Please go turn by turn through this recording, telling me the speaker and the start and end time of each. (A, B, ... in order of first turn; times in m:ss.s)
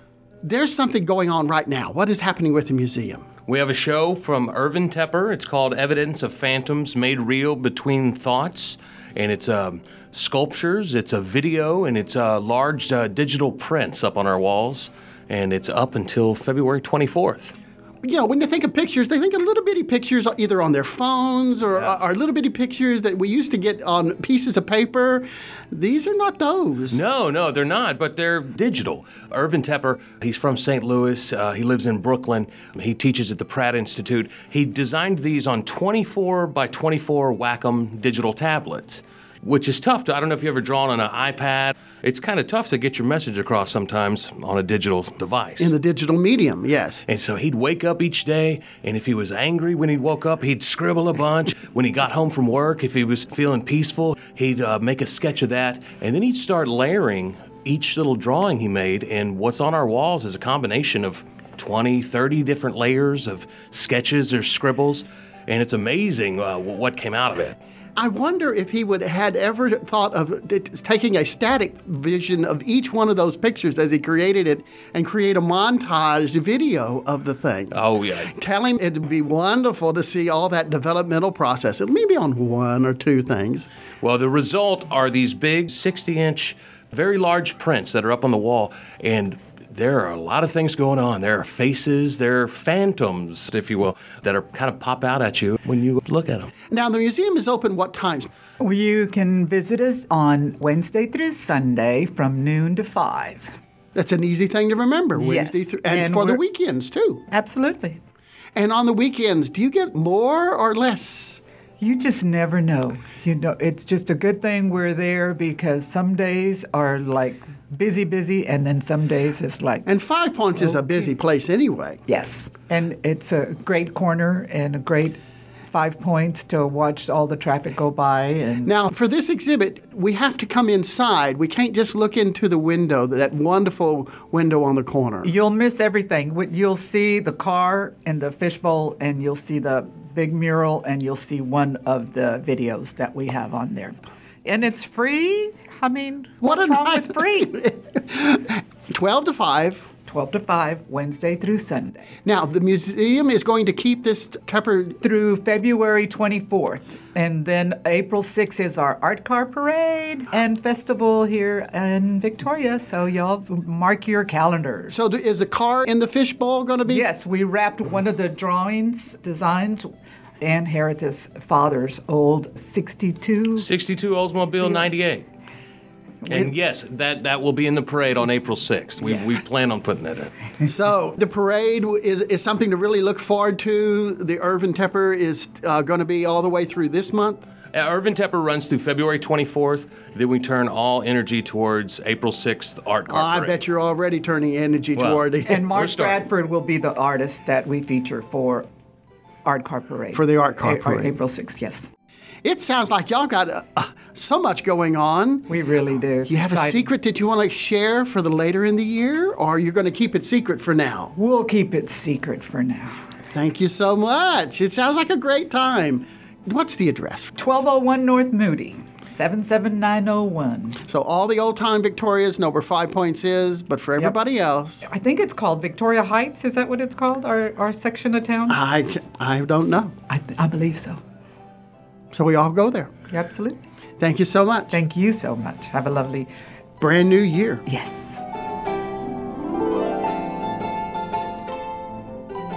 0:00.4-0:03.3 A
0:03.5-0:17.6 B
0:18.0-0:27.1 A
0:26.9-0:45.7 B
0:45.6-0:47.0 A
0:47.1-1:07.6 B
1:08.0-1:23.7 A
1:17.7-1:18.4 B
1:24.0-1:36.5 B
1:36.7-1:38.3 A
1:38.6-1:43.5 C
1:44.0-1:47.2 A
1:45.2-1:46.4 C
1:47.3-1:48.0 C
1:48.6-1:51.4 A
1:51.8-1:59.9 C
1:59.9-2:02.0 A
2:00.6-2:01.1 C
2:02.1-2:08.7 C
2:08.7-2:15.3 A
2:15.2-2:27.7 C
2:26.4-2:29.9 A
2:30.1-2:32.1 C
2:32.2-2:35.0 A
2:35.0-2:45.0 C
2:44.9-2:47.1 A
2:46.9-2:49.9 C
2:50.4-2:53.7 C
2:53.6-2:55.3 B
2:56.2-2:56.5 C
2:56.3-3:00.3 B
3:00.6-3:07.4 A
3:07.7-3:13.6 B
3:13.1-3:15.6 A
3:15.0-3:16.3 B
3:15.5-3:18.7 C
3:19.4-3:21.9 C
3:20.1-3:21.2 A
3:22.4-3:25.5 A
3:25.5-3:26.9 C
3:26.3-3:31.1 A
3:31.2-3:33.0 C
3:33.3-3:37.3 A
3:37.4-3:40.8 C
3:40.9-3:44.9 A
3:44.8-3:48.6 C
3:48.5-3:49.9 A
3:50.1-3:51.0 C
3:52.1-3:52.9 A
3:53.1-3:53.6 C
3:54.0-3:54.8 A
3:54.7-3:56.3 C
3:56.8-3:57.6 A
3:57.7-3:58.2 C